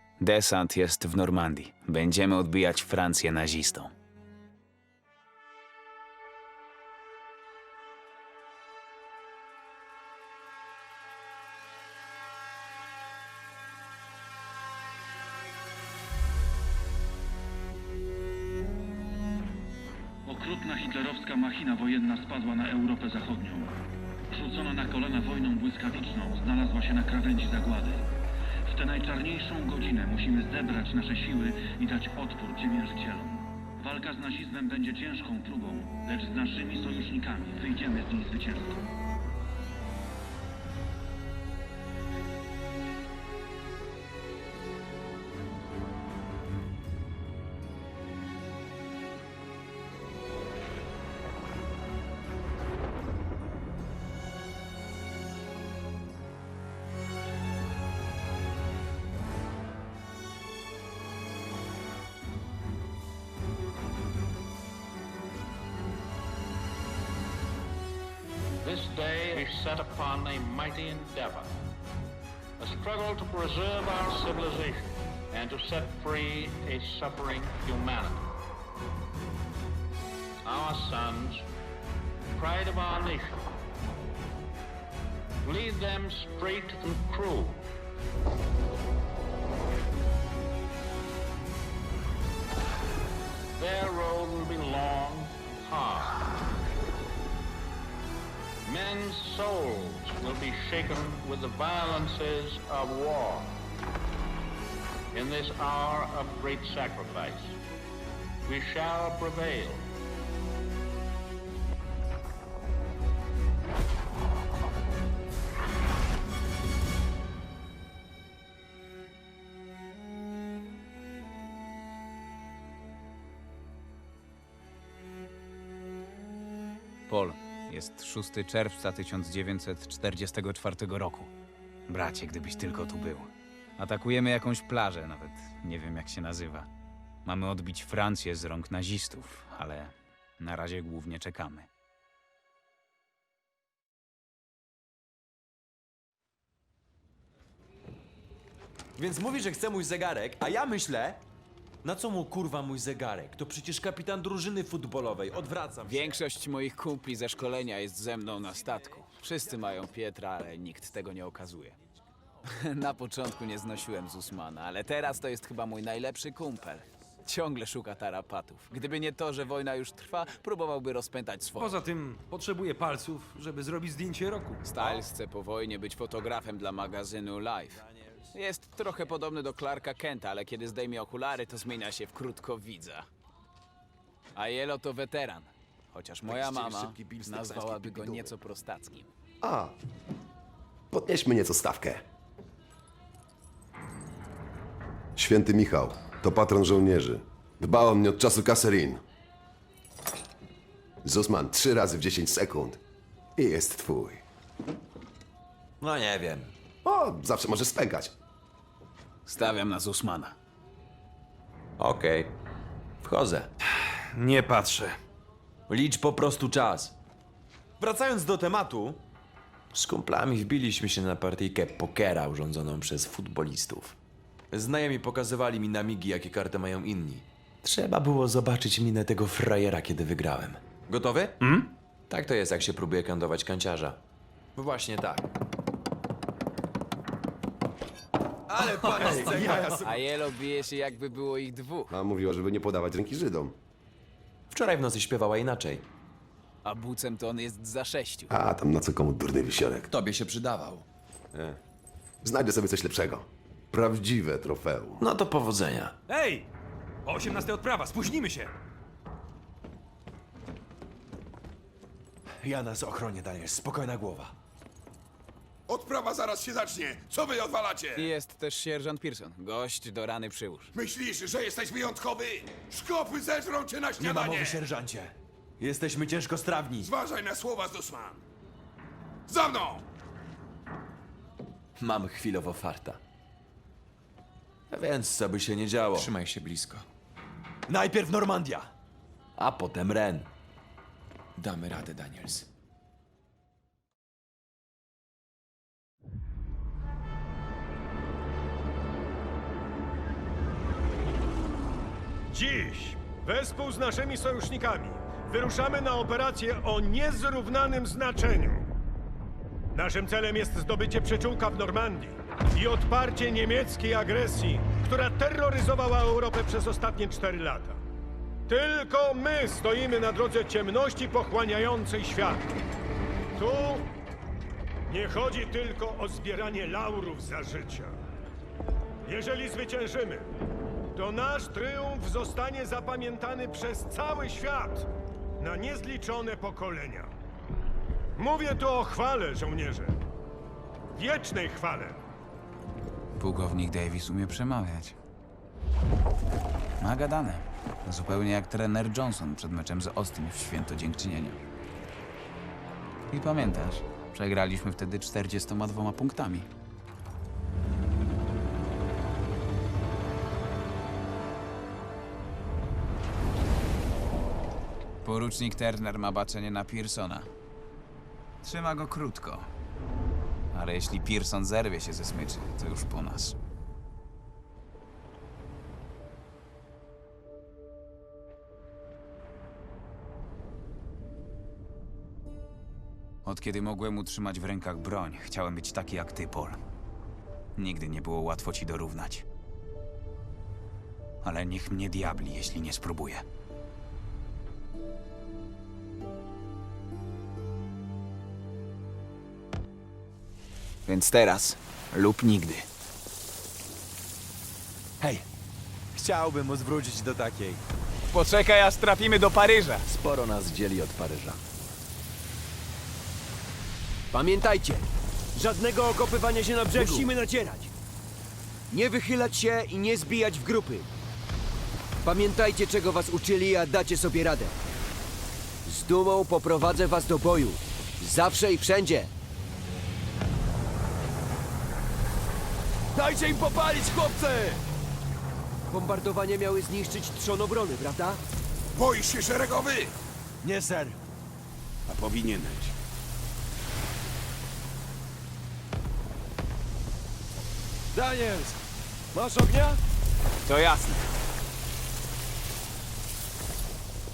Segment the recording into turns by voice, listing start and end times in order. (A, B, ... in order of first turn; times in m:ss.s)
0:00.2-0:03.9 A
0:20.2-0:23.7 B
0:24.3-0:28.1 B
0:28.7-0:38.8 B
1:08.6-1:11.5 C
1:12.6-1:18.3 C
1:20.4-1:21.5 C
1:22.3-1:23.4 C
1:25.4-1:27.7 C
1:33.6-1:36.2 C
1:38.6-1:43.6 C
1:45.1-1:47.6 C
1:48.5-1:49.9 C
2:07.1-2:11.3 A
2:11.9-2:16.7 A
2:17.2-2:21.7 A
2:29.0-2:31.2 D
2:31.8-2:36.2 D
2:35.8-2:41.8 A
2:42.4-2:51.8 A
2:51.6-2:54.6 E
2:54.6-3:03.1 A
3:04.3-3:09.1 A
3:06.3-3:08.3 D
3:09.4-3:09.7 F
3:10.9-3:12.0 F
3:15.2-3:19.0 F
3:21.0-3:22.8 F
3:23.4-3:24.2 F
3:25.8-3:26.5 D
3:26.8-3:28.1 F
3:29.2-3:30.4 A
3:31.8-3:32.3 D
3:33.0-3:33.5 D
3:35.7-3:37.0 D
3:37.8-3:39.0 D
3:39.7-3:44.0 D
3:44.5-3:51.4 D
3:52.1-3:54.0 D
3:54.6-3:55.3 D
3:58.5-4:00.0 D
3:59.8-4:01.9 A
4:01.9-4:03.6 F
4:04.5-4:05.8 D
4:06.6-4:08.3 A
4:08.3-4:09.9 F
4:09.9-4:10.8 D
4:11.3-4:11.6 F
4:12.2-4:15.1 F
4:15.0-4:16.0 D
4:16.1-4:16.4 E
4:17.1-4:18.5 E
4:22.4-4:24.3 D
4:25.7-4:28.1 G
4:27.9-4:30.7 A
4:30.7-4:34.6 G
4:34.0-4:36.9 D
4:36.8-4:38.2 G
4:39.3-4:39.8 G
4:41.8-4:43.0 D
4:44.7-4:46.8 D
4:47.7-4:48.7 D
4:49.4-4:50.3 D
4:51.4-4:52.5 D
5:02.3-5:08.7 H
5:09.8-5:17.8 H
5:18.5-5:22.4 H
5:23.4-5:23.8 H
5:24.9-5:27.9 H
5:29.1-5:30.3 H
5:30.9-5:34.9 H
5:35.4-5:37.1 H
5:38.2-5:40.0 H
5:41.0-5:42.0 H
5:43.2-5:45.0 A
5:46.8-5:51.4 A
5:53.1-5:56.5 A
6:05.0-6:07.3 A
6:08.4-6:09.5 A
6:10.5-6:13.3 A
6:23.2-6:26.6 A
6:27.6-6:29.2 A
6:31.2-6:33.2 A
6:40.8-6:42.7 A
6:45.9-6:47.6 D
6:48.1-6:49.8 A
6:49.9-6:51.4 D
6:54.1-6:57.7 I
6:56.8-6:57.0 D
6:58.7-7:00.9 I
7:02.0-7:04.6 I
7:05.6-7:09.1 I
7:13.2-7:14.6 I
7:15.7-7:18.2 I
7:18.8-7:19.9 G
7:20.5-7:20.9 I
7:21.9-7:22.6 G
7:28.0-7:28.5 I
7:29.1-7:29.8 I
7:30.4-7:31.0 A